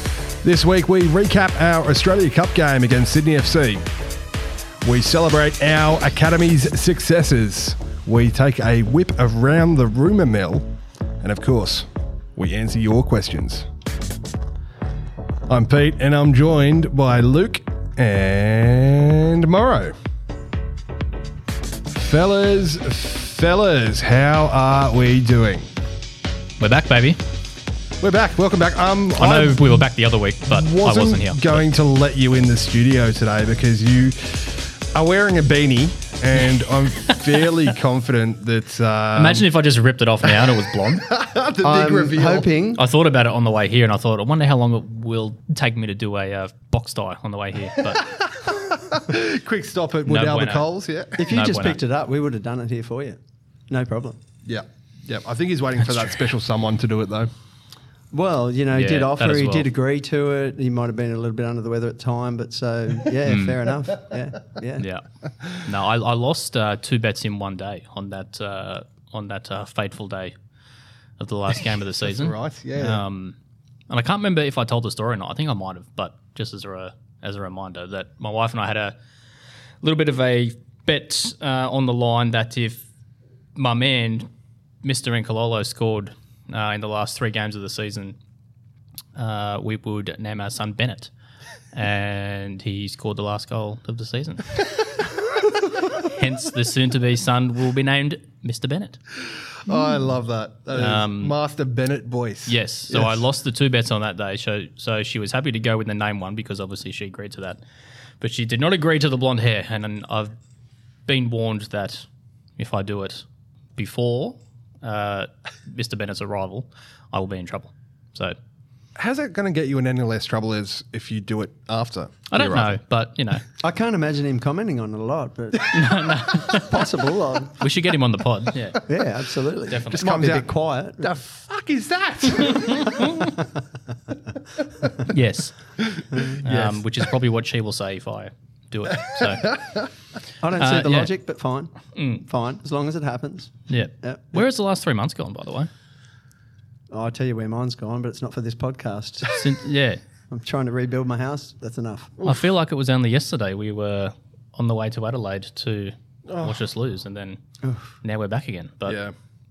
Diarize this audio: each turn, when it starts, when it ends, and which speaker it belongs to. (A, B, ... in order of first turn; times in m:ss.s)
0:00.4-0:03.9 A
0:04.8-0:13.7 A
0:15.5-0:20.0 A
0:21.9-0:25.7 A
0:26.6-0:27.2 B
0:28.0-0:29.8 A
0:29.2-0:31.6 B
0:30.5-0:39.5 A
0:39.1-0:41.1 B
0:40.2-0:42.5 A
0:41.6-0:42.8 C
0:42.8-0:48.1 B
0:47.8-0:51.2 A
0:50.1-0:50.7 B
0:51.2-0:53.2 C
0:51.3-0:51.8 B
0:53.7-0:54.2 C
0:54.4-0:57.3 A
0:58.1-1:04.9 C
0:58.7-0:59.7 B
1:03.3-1:03.6 B
1:04.8-1:05.0 B
1:05.6-1:10.3 B
1:11.2-1:13.4 B
1:12.0-1:13.0 A
1:13.9-1:19.0 B
1:19.8-1:22.9 B
1:23.6-1:24.3 B
1:24.8-1:28.2 B
1:29.2-1:31.1 B
1:31.7-1:35.1 B
1:35.9-1:39.0 B
1:39.3-1:43.2 A
1:40.7-1:41.3 B
1:42.5-1:47.6 B
1:48.2-1:50.3 B
1:51.1-1:52.0 B
1:52.6-1:53.2 B
1:53.8-1:58.4 B
1:59.0-2:02.8 A
2:02.3-2:03.4 B
2:03.6-2:07.6 C
2:05.7-2:06.8 B
2:07.6-2:08.8 B
2:08.8-2:11.1 C
2:09.7-2:10.0 B
2:09.9-2:13.2 A
2:12.4-2:13.3 B
2:13.1-2:13.4 C
2:15.0-2:15.6 B
2:15.8-2:17.1 A
2:16.1-2:16.4 C
2:16.4-2:19.6 B
2:19.1-2:19.9 A
2:20.4-2:24.4 C
2:20.6-2:21.1 B
2:21.9-2:22.2 B
2:23.7-2:25.7 B
2:26.9-2:29.4 C
2:29.3-2:30.0 B
2:30.3-2:32.2 C
2:32.2-2:32.4 A
2:32.2-2:37.4 B
2:36.3-2:36.6 A
2:37.6-2:37.9 C
2:38.0-2:39.0 B
2:38.8-2:39.1 A